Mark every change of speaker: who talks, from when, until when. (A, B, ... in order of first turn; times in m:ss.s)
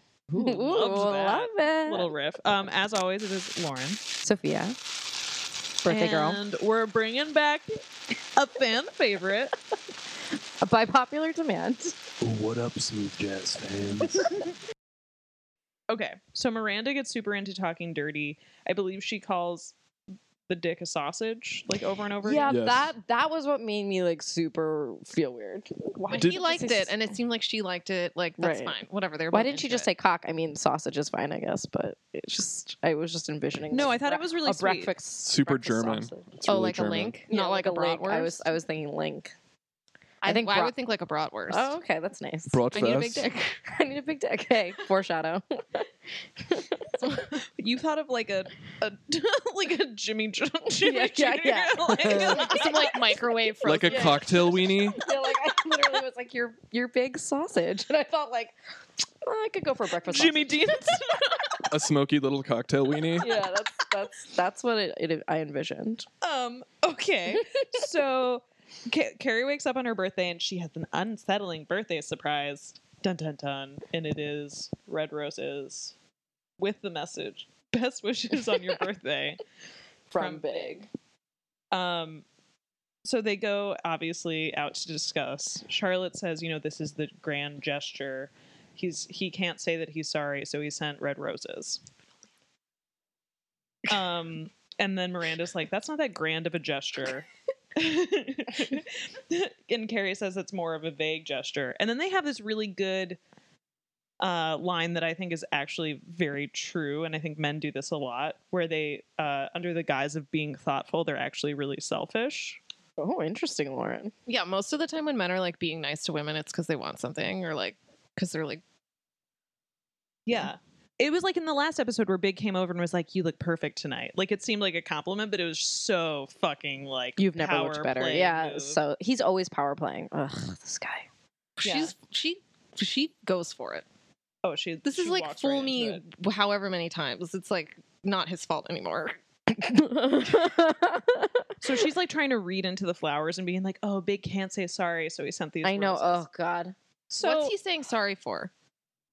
0:00.3-0:04.0 A
0:00.4-0:02.1 B
0:04.2-0:04.8 B
0:05.8-0:06.4 B
0:05.8-0:07.7 A
0:08.4-0:09.5 A
0:10.6-0:11.9 B
0:12.2-0:14.2 C
0:15.9-0:19.7 A
0:20.5-0:22.5 A
0:22.2-0:27.0 B
0:22.4-0:22.9 C
0:26.1-0:29.9 D
0:26.2-0:26.4 C
0:28.4-0:28.7 B
0:29.3-0:36.3 B
0:33.7-0:34.9 A
0:35.2-0:37.2 C
0:36.4-0:38.5 D
0:37.3-0:39.3 B
0:40.2-0:41.8 D
0:40.2-0:40.7 B
0:41.5-0:42.7 B
0:42.5-0:43.3 C
0:42.7-0:43.6 D
0:43.6-0:45.8 B
0:46.4-0:47.0 B
0:47.0-0:47.3 D
0:47.6-0:53.0 A
0:50.8-0:52.7 B
0:52.2-0:54.3 D
0:53.6-0:55.0 C
0:53.8-0:58.6 B
0:59.2-1:00.7 B
1:00.0-1:01.6 A
1:01.7-1:03.3 C
1:03.2-1:06.0 B
1:03.2-1:03.5 A
1:06.2-1:15.9 A
1:16.6-1:19.4 A
1:20.1-1:20.9 B
1:20.1-1:20.7 A
1:21.7-1:22.2 A
1:23.0-1:31.8 A
1:33.9-1:43.2 A
1:44.2-1:52.6 A
1:53.0-1:54.1 B
1:54.3-1:58.6 D
2:00.2-2:08.8 A
2:07.2-2:11.1 B
2:11.6-2:13.8 D
2:11.6-2:11.9 A
2:14.4-2:16.0 A
2:14.8-2:19.2 D
2:19.5-2:21.4 B
2:21.6-2:26.2 A
2:25.6-2:26.7 B
2:27.1-2:27.5 A
2:27.2-2:28.5 D